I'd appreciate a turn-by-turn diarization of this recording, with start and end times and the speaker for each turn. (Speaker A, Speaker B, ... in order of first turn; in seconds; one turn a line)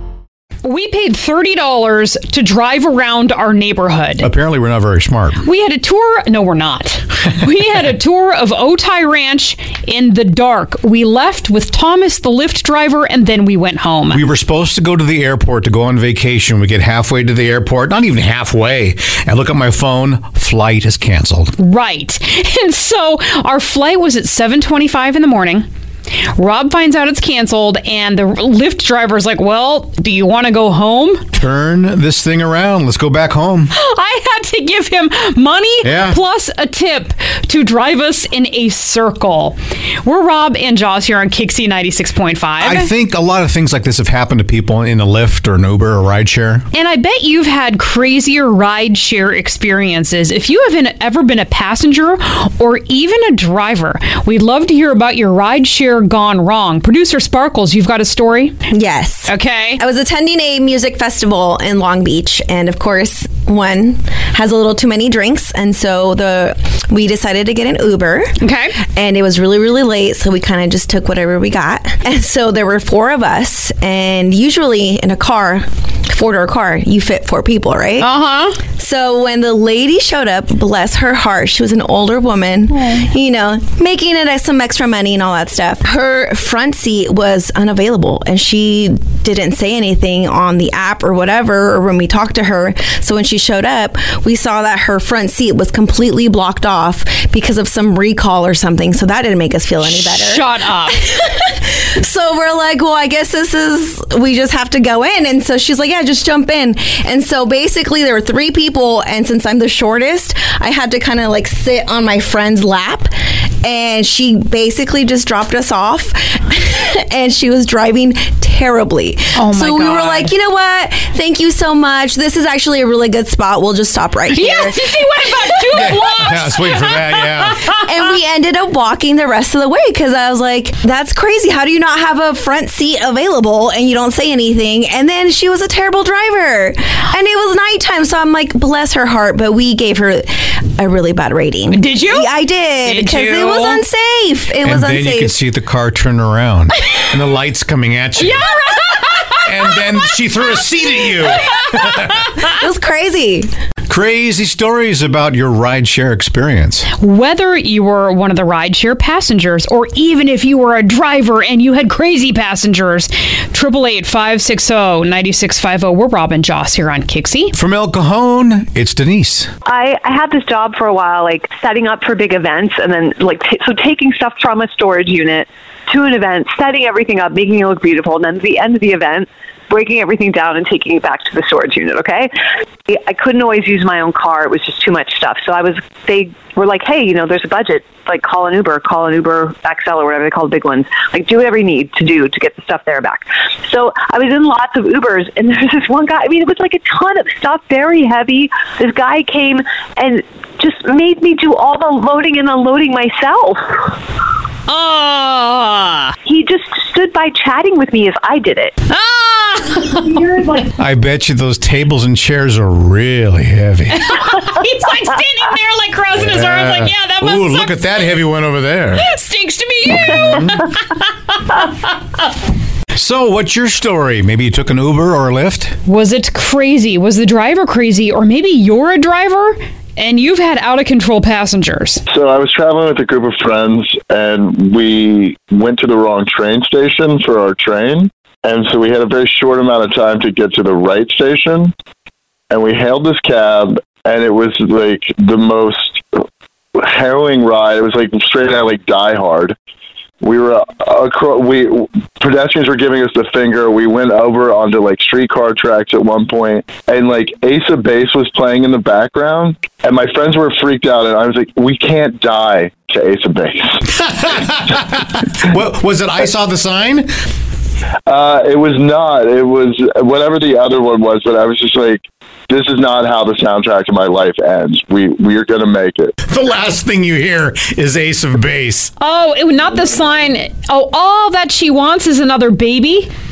Speaker A: 0.6-4.3
Speaker B: 4.2-5.4
Speaker A: 5.4-14.2
Speaker B: 14.1-21.5
Speaker A: 21.6-25.6
Speaker A: 26.3-31.2
Speaker B: 31.4-33.7
Speaker A: 33.7-42.9
Speaker B: 35.8-36.2
Speaker B: 42.6-46.6
Speaker A: 46.7-58.6
Speaker C: 58.7-78.1
Speaker A: 59.2-59.8
Speaker A: 68.4-68.8
Speaker A: 78.0-78.6
Speaker C: 78.8-113.1
Speaker A: 99.8-101.0
Speaker C: 113.6-125.2
Speaker A: 119.3-120.3
Speaker A: 124.3-127.5
Speaker B: 125.7-127.6
Speaker C: 127.7-145.3
Speaker A: 141.7-142.3
Speaker A: 142.8-143.8
Speaker B: 144.6-148.4
Speaker A: 148.2-149.1
Speaker B: 149.4-152.3
Speaker C: 152.5-153.5
Speaker B: 153.9-156.9
Speaker A: 156.9-167.5
Speaker B: 167.6-169.5
Speaker D: 169.7-182.3
Speaker D: 182.9-203.9
Speaker A: 204.7-206.1
Speaker D: 206.2-208.7
Speaker A: 208.9-210.6
Speaker B: 210.8-214.1
Speaker A: 213.9-217.9
Speaker B: 216.2-219.0
Speaker A: 218.9-221.7
Speaker B: 220.1-220.5
Speaker B: 222.9-225.7
Speaker A: 225.8-232.0
Speaker E: 232.1-241.7
Speaker E: 242.5-246.0
Speaker E: 246.8-249.5
Speaker E: 250.2-263.8
Speaker B: 263.9-267.1
Speaker E: 268.1-276.1
Speaker B: 276.2-278.9
Speaker A: 279.0-283.1